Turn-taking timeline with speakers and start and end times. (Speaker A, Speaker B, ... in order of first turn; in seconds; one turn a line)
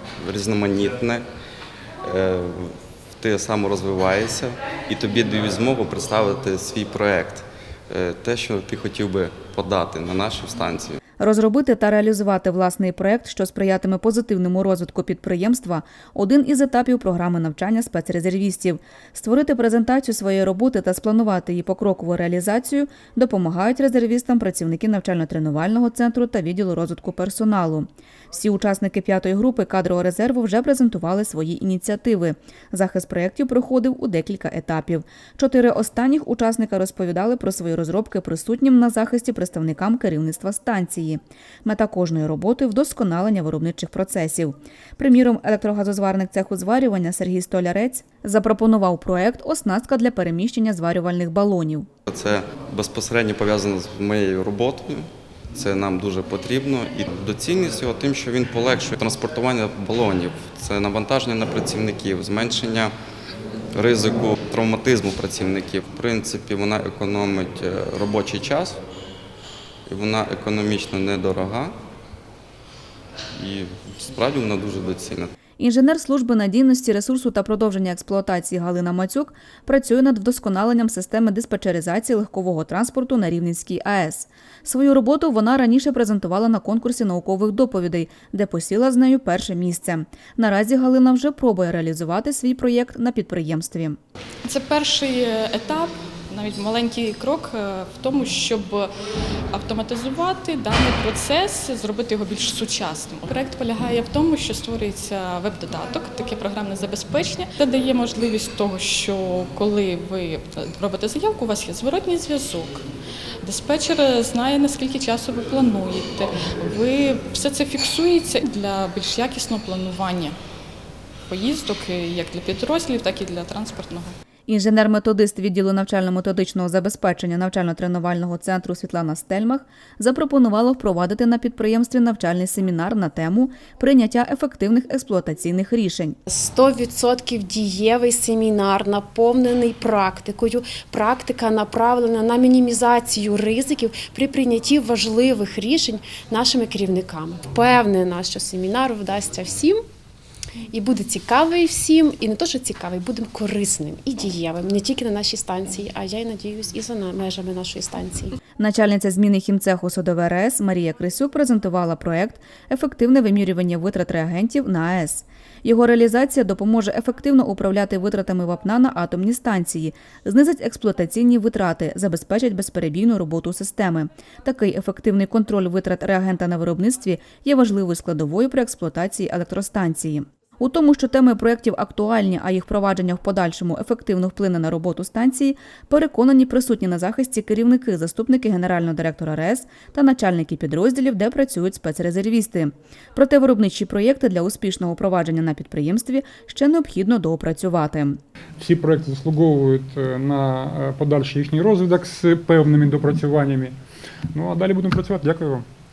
Speaker A: 0.2-1.2
Speaker A: 2.1-2.5
Speaker A: 3.2-7.3
Speaker A: 7.9-11.0
Speaker B: 11.2-51.9
Speaker A: 52.1-55.0
Speaker A: 55.6-62.9
Speaker A: 63.8-68.8
Speaker A: 69.9-71.7
Speaker A: 74.1-75.2
Speaker B: 75.6-94.0
Speaker C: 94.4-98.9
Speaker C: 99.5-112.8
Speaker C: 113.4-120.3
Speaker C: 121.3-124.1
Speaker B: 124.5-136.2
Speaker D: 136.3-149.8
Speaker D: 150.7-158.3
Speaker B: 158.6-198.2
Speaker E: 198.6-203.7
Speaker E: 204.3-205.6